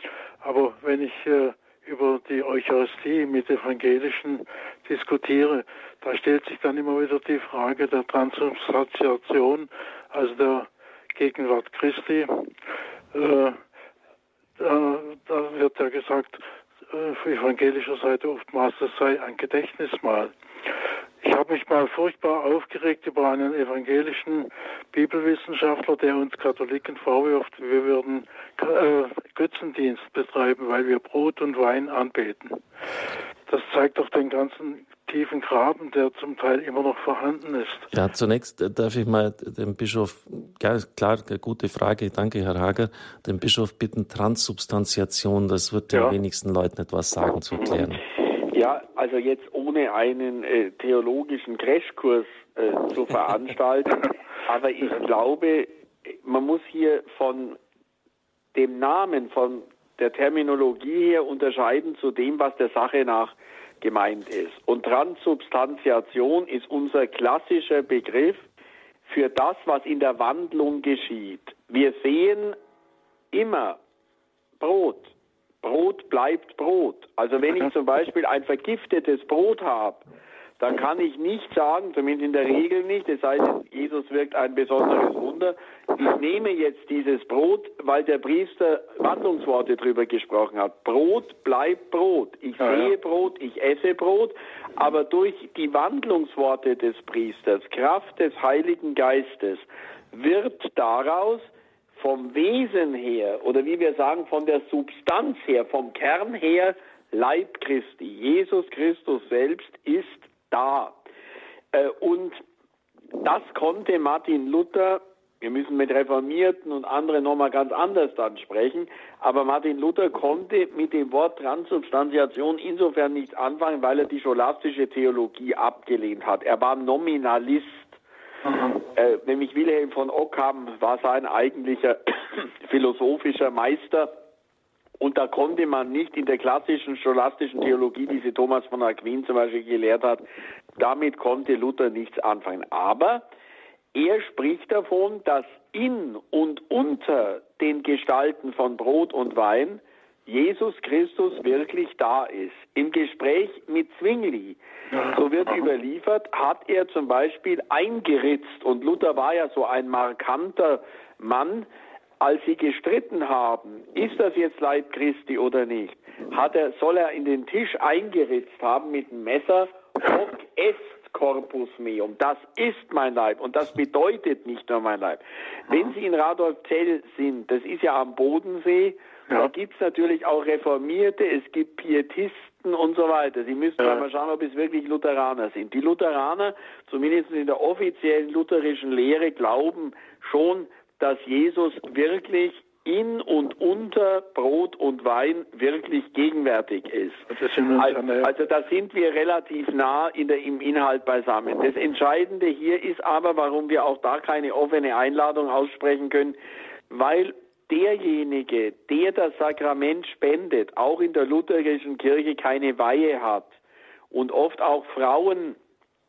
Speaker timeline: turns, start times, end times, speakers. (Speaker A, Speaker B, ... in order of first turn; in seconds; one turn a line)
Speaker A: 0.4-12.5
Speaker A: 13.1-13.6
Speaker A: 14.6-20.3
Speaker A: 21.2-32.6
Speaker A: 33.5-37.9
Speaker B: 37.9-48.0
Speaker A: 45.9-46.2
Speaker C: 47.5-47.9
Speaker C: 48.5-57.6
Speaker C: 58.5-68.4
Speaker C: 69.0-72.6
Speaker C: 73.3-73.8
Speaker C: 74.6-75.1
Speaker C: 75.6-80.0
Speaker C: 80.6-111.0
Speaker A: 92.6-92.9
Speaker C: 111.7-112.4
Speaker C: 113.2-128.0
Speaker A: 128.4-128.8
Speaker C: 128.9-134.1
Speaker C: 135.0-140.2
Speaker C: 140.8-143.2
Speaker C: 143.9-161.7
Speaker A: 154.9-155.7
Speaker C: 162.2-206.3
Speaker A: 197.3-198.3
Speaker C: 206.9-213.6
Speaker C: 214.1-215.6